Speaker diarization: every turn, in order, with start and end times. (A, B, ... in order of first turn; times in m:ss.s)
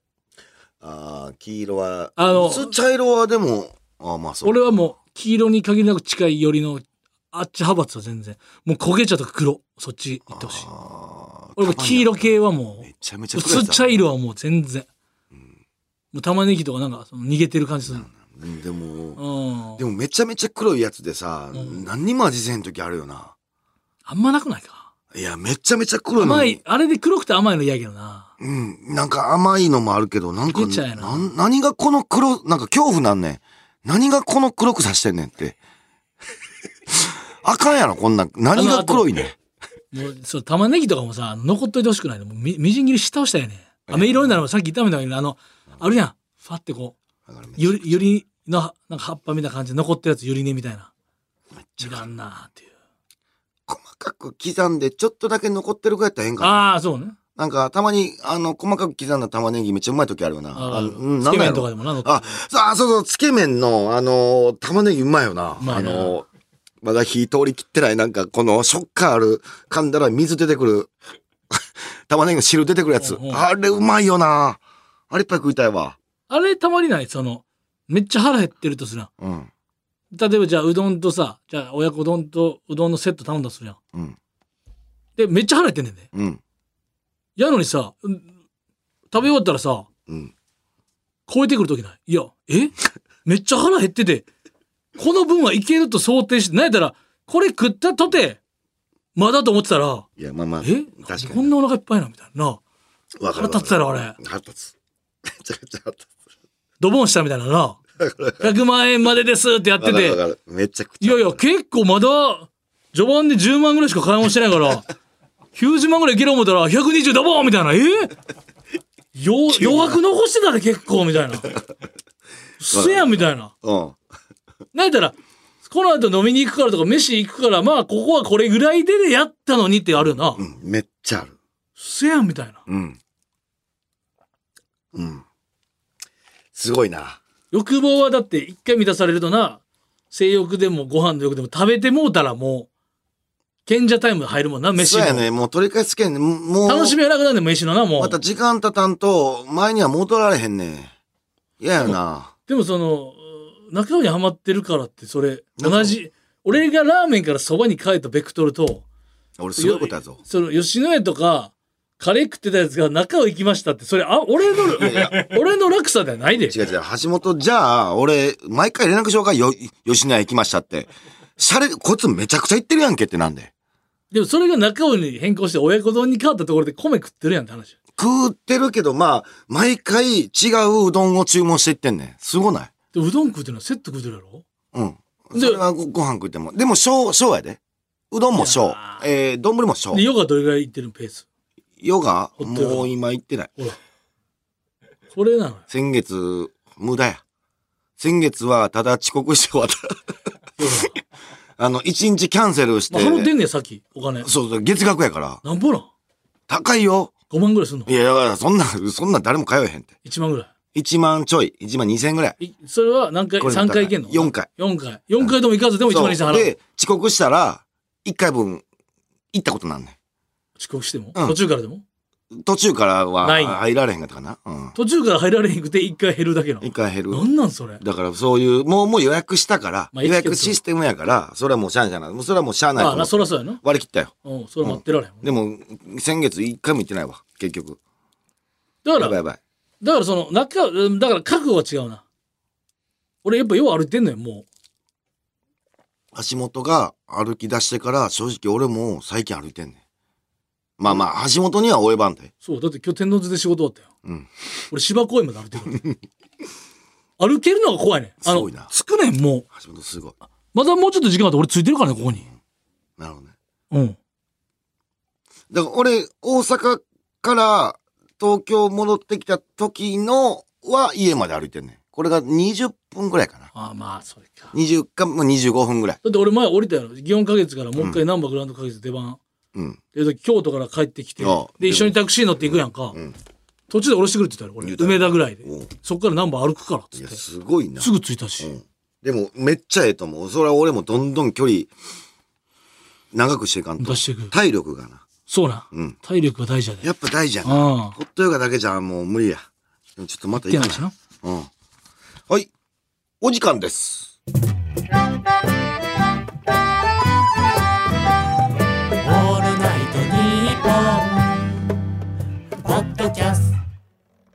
0:00.8-0:04.9 A
0:02.2-0:02.7 B
0:04.4-0:10.7 B
0:10.3-0:14.0 A
0:11.6-0:14.9 B
0:16.1-0:18.1 B
0:17.9-0:19.2 A
0:19.2-0:19.8 B
0:19.8-0:23.4 A
0:21.5-0:21.8 B
0:24.1-0:24.9 B
0:25.1-0:26.6 A
0:26.2-0:28.3 B
0:28.4-0:35.6 A
0:30.5-0:31.3 B
0:36.9-0:39.4 A
0:38.5-0:39.1 B
0:39.9-0:47.0 B
0:43.9-0:44.4 A
0:47.3-0:48.0 A
0:47.6-0:50.9 B
0:51.5-0:52.1 A
0:51.8-0:52.7 B
0:53.7-0:56.6 A
0:56.4-0:57.2 B
0:57.4-1:06.3 A
1:00.5-1:02.3 B
1:05.6-1:06.2 B
1:06.8-1:10.9 A
1:11.5-1:16.0 A
1:13.0-1:13.5 B
1:16.3-1:19.1 B
1:19.2-1:19.5 A
1:20.1-1:23.8 B
1:25.2-1:26.1 B
1:26.1-1:26.4 A
1:27.4-1:28.3 B
1:29.1-1:29.9 B
1:30.1-1:30.3 A
1:31.3-1:34.3 B
1:35.0-1:38.4 B
1:39.2-1:40.1 B
1:40.2-1:41.5 A
1:40.6-1:42.6 B
1:43.2-1:46.1 A
1:43.3-1:44.2 B
1:46.8-1:47.8 B
1:48.0-1:48.5 A
1:48.4-1:50.2 B
1:49.8-1:51.4 A
1:51.0-1:54.9 B
1:55.6-1:58.1 B
1:59.2-2:01.5 B
1:59.5-2:00.0 A
2:02.6-2:03.5 B
2:02.7-2:04.0 A
2:04.7-2:10.4 B
2:10.4-2:11.4 A
2:11.8-2:12.6 B
2:12.7-2:13.0 A
2:14.9-2:15.2 A
2:16.5-2:17.2 A
2:17.5-2:22.7 B
2:23.7-2:25.2 B
2:24.8-2:27.0 A
2:26.7-2:28.2 B
2:28.0-2:30.9 A
2:31.6-2:32.3 A
2:32.5-2:38.8 B
2:35.6-2:36.0 A
2:39.4-2:40.2 A
2:39.6-2:46.6 B
2:44.7-2:45.3 A
2:46.4-2:53.5 A
2:54.1-2:57.7 B
2:58.0-3:02.7 A
3:02.9-3:04.4 B
3:04.7-3:07.6 A
3:05.4-3:05.6 B
3:08.1-3:10.0 A
3:08.4-3:09.0 B
3:09.9-3:11.2 B
3:11.8-3:13.5 A
3:12.4-3:12.9 B
3:15.1-3:15.6 B
3:15.7-3:17.2 A
3:18.0-3:20.1 A
3:20.6-3:21.0 B
3:21.6-3:23.3 A
3:22.9-3:24.3 B
3:24.2-3:25.4 A
3:25.4-3:25.9 B
3:26.5-3:27.1 A
3:27.3-3:27.9 B
3:27.9-3:29.9 A
3:30.0-3:30.5 B
3:30.8-3:32.4 A
3:32.4-3:36.6 B
3:33.4-3:34.5 A
3:35.9-3:38.6 A
3:39.3-3:40.0 A
3:40.6-3:41.8 B
3:42.3-3:44.8 A
3:43.2-3:43.6 B
3:44.8-3:47.8 B
3:46.6-3:47.3 A
3:47.8-3:57.8 A
3:49.9-3:50.6 B
3:52.8-3:53.6 B
3:54.2-3:55.2 B
3:58.8-3:59.2 B
3:59.0-3:59.4 A
3:59.8-4:02.0 B
4:03.2-4:04.5 B
4:06.1-4:09.8 A
4:10.8-4:12.3 A
4:12.4-4:13.9 B
4:14.7-4:15.9 B
4:17.2-4:19.5 B
4:18.2-4:18.7 A
4:19.5-4:20.2 A
4:20.5-4:22.3 B
4:23.0-4:23.3 A
4:23.7-4:24.0 B
4:25.5-4:33.5 A
4:33.6-4:34.5 B
4:34.5-4:36.0 A
4:36.0-4:39.2 B
4:39.9-4:43.0 B
4:41.2-4:43.2 A
4:43.7-4:47.2 B
4:44.6-4:45.7 A
4:47.0-4:51.7 A
4:47.8-4:48.5 B
4:53.1-4:55.0 A
4:53.8-4:54.3 B
4:55.3-4:56.9 B
4:55.7-4:56.0 A
4:56.8-4:59.5 A
4:57.4-4:58.0 B
5:00.0-5:01.5 A
5:00.4-5:00.9 B
5:03.2-5:04.2 A
5:09.0-5:11.4 C
5:12.6-5:13.5 C